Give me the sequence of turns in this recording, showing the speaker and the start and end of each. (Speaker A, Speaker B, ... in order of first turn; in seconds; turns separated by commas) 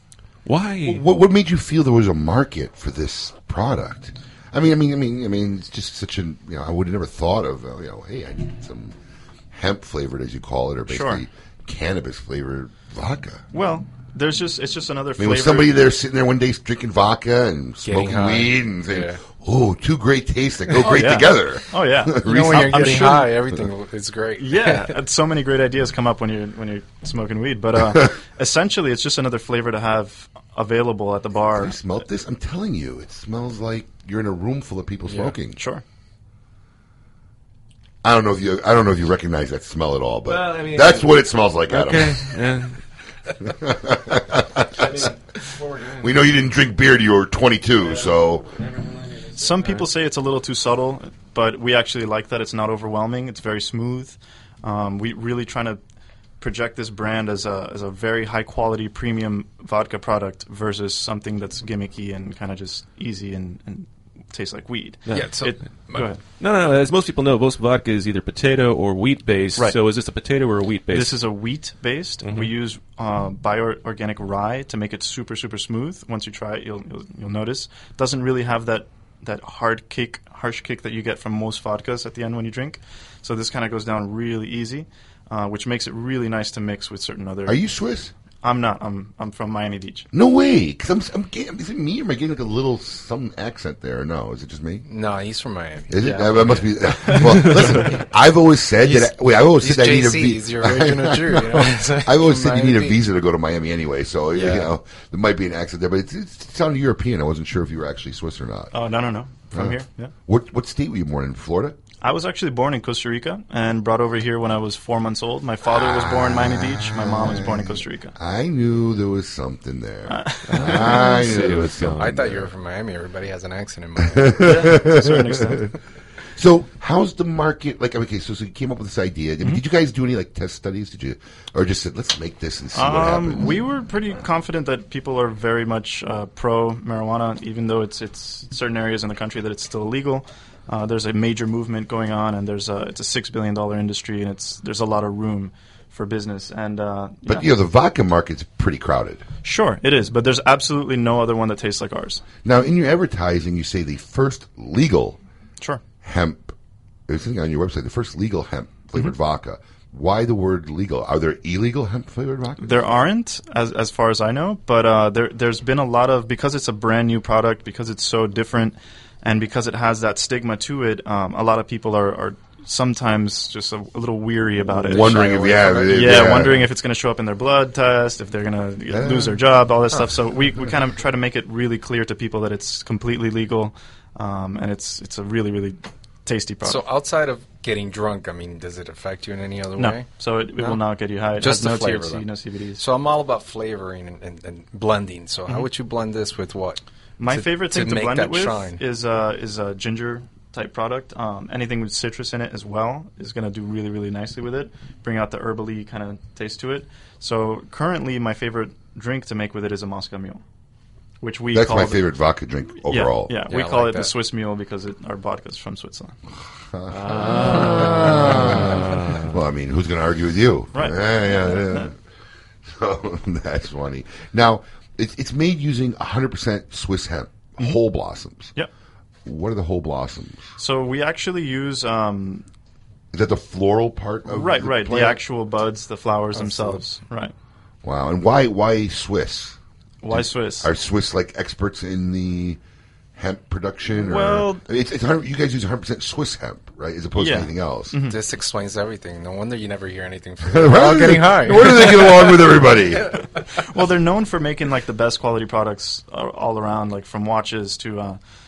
Speaker A: 0.4-1.0, Speaker B: 0.8-8.9, Speaker B: 9.5-13.4, Speaker C: 10.9-11.2, Speaker C: 13.5-15.8, Speaker B: 15.2-23.0, Speaker D: 17.8-19.2, Speaker C: 20.7-23.3, Speaker D: 22.2-24.9, Speaker C: 24.4-31.8, Speaker B: 31.5-35.6, Speaker D: 35.1-35.3, Speaker C: 35.5-35.8, Speaker B: 38.0-42.2, Speaker A: 40.3-41.2, Speaker A: 41.7-42.8, Speaker B: 43.5-45.1, Speaker A: 44.8-45.1, Speaker A: 45.6-45.9, Speaker B: 46.0-48.5, Speaker C: 49.3-55.8, Speaker C: 56.4-66.2, Speaker D: 65.1-66.1, Speaker A: 66.4-71.1, Speaker C: 70.9-87.6, Speaker A: 72.2-72.5, Speaker B: 87.5-88.1, Speaker C: 88.4-90.1, Speaker B: 90.1-94.8, Speaker D: 94.8-97.8, Speaker B: 95.9-108.7, Speaker D: 98.8-103.0, Speaker D: 104.3-104.7, Speaker C: 108.7-110.1, Speaker B: 110.3-111.8, Speaker C: 112.0-118.1, Speaker B: 115.7-122.5, Speaker C: 120.1-120.5, Speaker A: 120.5-122.1, Speaker D: 122.0-124.5, Speaker B: 124.0-125.6, Speaker C: 124.4-125.7, Speaker B: 126.3-133.6, Speaker C: 132.7-147.5, Speaker B: 147.2-149.2, Speaker C: 149.4-152.2, Speaker B: 152.4-155.2, Speaker B: 156.0-156.5, Speaker B: 157.1-163.0, Speaker C: 162.6-186.8, Speaker B: 174.7-176.7, Speaker B: 178.9-179.3, Speaker D: 186.6-190.1, Speaker C: 189.8-192.8, Speaker D: 191.4-198.8, Speaker C: 197.2-210.4, Speaker C: 211.2-212.1, Speaker B: 211.5-213.3, Speaker C: 212.8-216.1, Speaker D: 213.5-214.1, Speaker B: 216.6-221.9, Speaker A: 216.9-219.1, Speaker C: 220.7-221.9, Speaker B: 222.7-228.5, Speaker B: 229.2-230.5, Speaker C: 230.6-232.4, Speaker B: 233.1-235.2, Speaker C: 234.2-237.3, Speaker D: 236.3-236.8, Speaker B: 237.8-239.6, Speaker C: 240.0-240.7, Speaker B: 240.1-242.6, Speaker B: 243.2-247.9, Speaker C: 243.9-244.6, Speaker C: 247.2-248.2, Speaker D: 248.1-252.4, Speaker B: 250.5-253.2, Speaker C: 253.6-258.2